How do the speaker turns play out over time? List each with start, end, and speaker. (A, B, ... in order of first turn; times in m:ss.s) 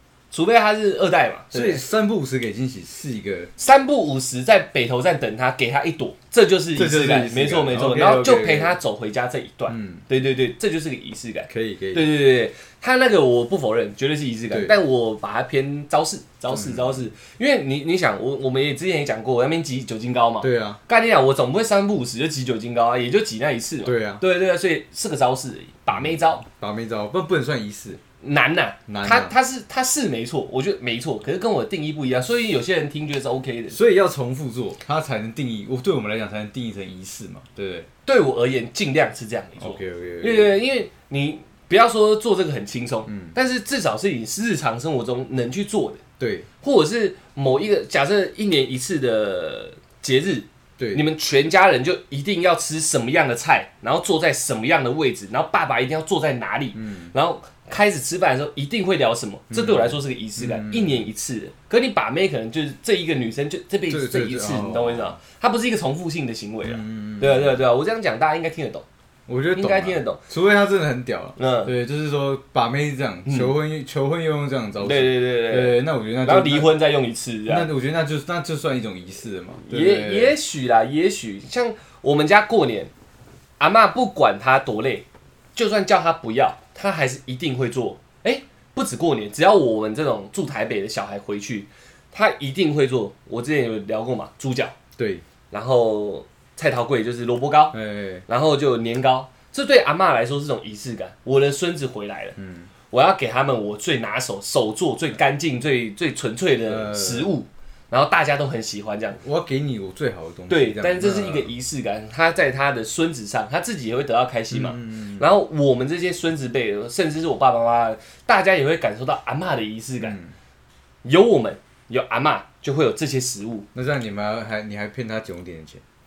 0:00.3-0:01.8 A
0:01.5-0:03.5 B
0:03.6-0:26.4 A
0:06.7-0:08.8 B
0:09.7-0:10.0 B
0:11.5-0:12.1 B
0:16.5-0:17.0 B
0:20.4-0:20.8 B
0:23.8-0:24.2 B
0:25.9-0:28.0 B
0:28.2-0:33.8 A
0:28.9-0:29.3 B
0:33.7-0:37.9 B
0:38.0-0:46.0 A
0:39.6-0:40.5 B
0:43.1-0:43.4 B
0:46.2-0:46.5 B
0:46.6-1:08.8 A
0:50.8-0:51.0 B
0:56.7-0:57.1 B
0:59.5-1:01.1 B
1:03.9-1:05.2 B
1:06.6-1:07.6 B
1:09.3-1:16.7 B
1:09.5-1:10.2 A
1:11.4-1:11.7 A
1:13.2-1:13.5 A
1:14.8-1:17.7 A
1:17.5-1:20.4 B
1:19.7-1:22.9 A
1:23.6-1:34.7 A
1:35.0-1:35.2 B
1:35.5-1:42.4 A
1:37.7-1:38.2 B
1:42.4-1:42.7 B
1:42.9-1:49.2 A
1:46.7-1:47.3 B
1:49.2-1:51.5 B
1:50.5-2:00.2 A
1:54.5-1:55.3 B
2:00.0-2:00.3 B
2:01.0-2:03.7 A
2:03.7-2:05.8 B